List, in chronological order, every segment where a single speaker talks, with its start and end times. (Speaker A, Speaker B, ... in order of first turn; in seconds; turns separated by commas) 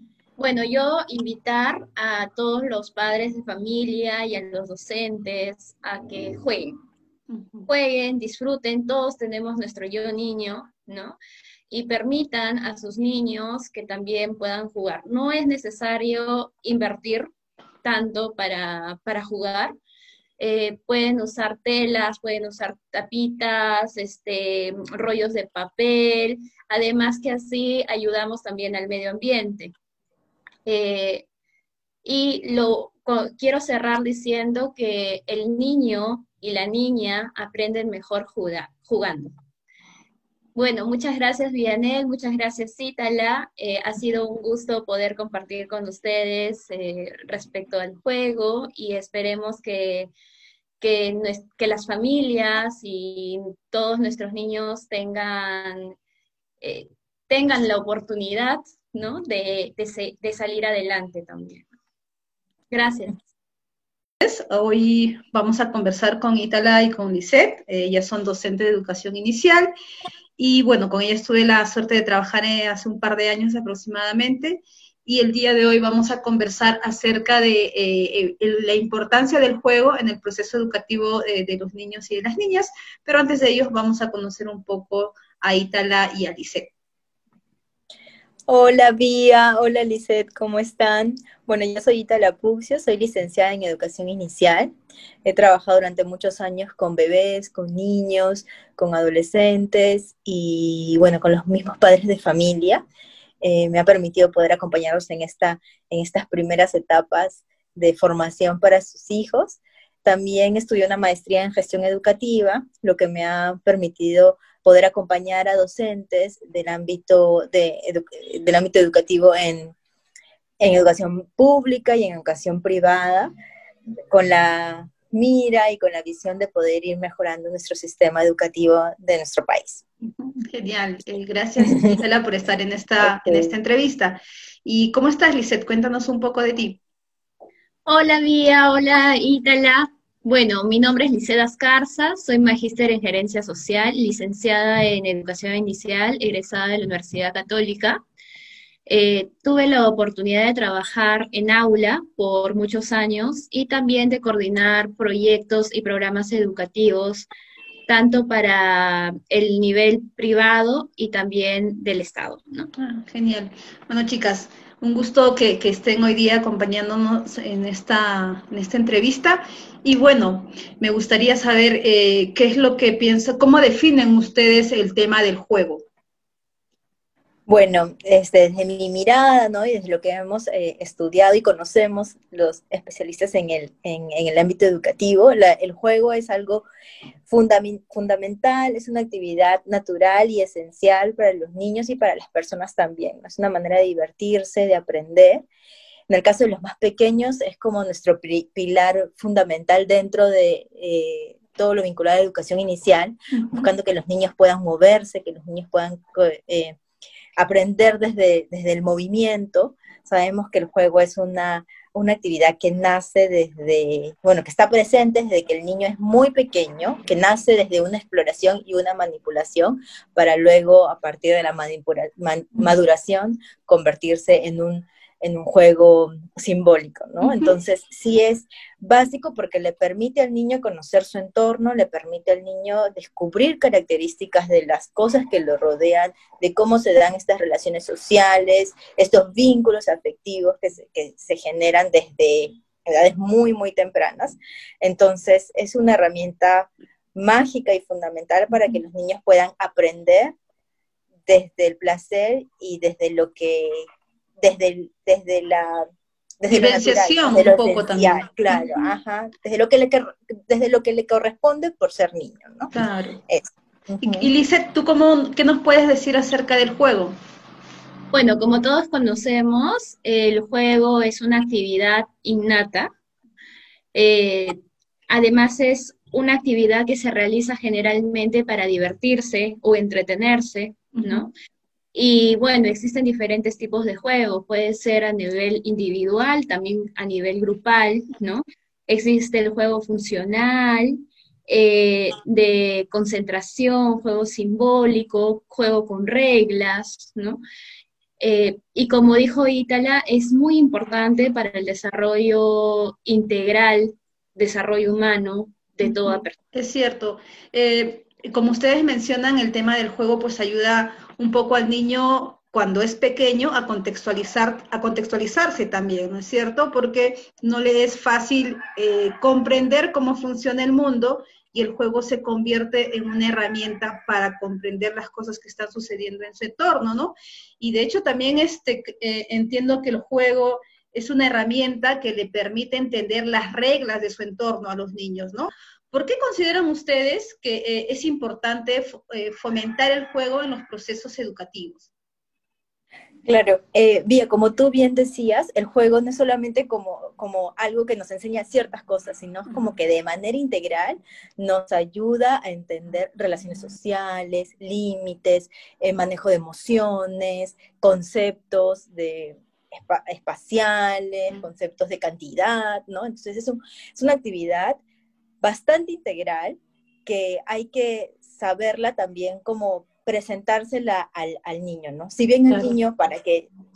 Speaker A: 0.4-6.7, Speaker B: 7.3-7.7, Speaker A: 7.7-11.2, Speaker A: 11.7-17.3, Speaker A: 17.8-19.8, Speaker A: 20.4-29.7, Speaker A: 30.6-31.2, Speaker A: 32.0-39.3, Speaker A: 40.5-50.1, Speaker A: 50.8-55.9, Speaker A: 56.6-61.6, Speaker A: 62.7-63.2, Speaker B: 64.2-69.7, Speaker B: 70.4-86.7, Speaker C: 88.5-94.7, Speaker C: 95.2-102.8, Speaker C: 103.4-119.7, Speaker C: 120.6-123.3, Speaker C: 124.1-129.8, Speaker B: 130.0-136.8, Speaker C: 133.0-133.5, Speaker A: 137.8-148.0, Speaker A: 148.9-157.3, Speaker A: 157.9-162.7, Speaker B: 162.8-175.8, Speaker C: 177.5-186.7, Speaker C: 187.3-195.4, Speaker C: 196.1-206.8, Speaker B: 203.3-203.7, Speaker C: 207.4-250.3, Speaker B: 227.2-227.5, Speaker C: 251.3-253.8, Speaker C: 254.4-255.8, Speaker C: 256.4-262.7, Speaker B: 256.5-258.8, Speaker B: 262.7-263.2, Speaker C: 263.3-264.3, Speaker B: 264.0-267.1, Speaker A: 268.1-272.9, Speaker A: 273.9-281.3, Speaker B: 280.9-281.3, Speaker A: 281.9-297.4, Speaker A: 298.2-306.4, Speaker B: 305.8-341.9, Speaker C: 343.2-364.8, Speaker C: 365.4-373.5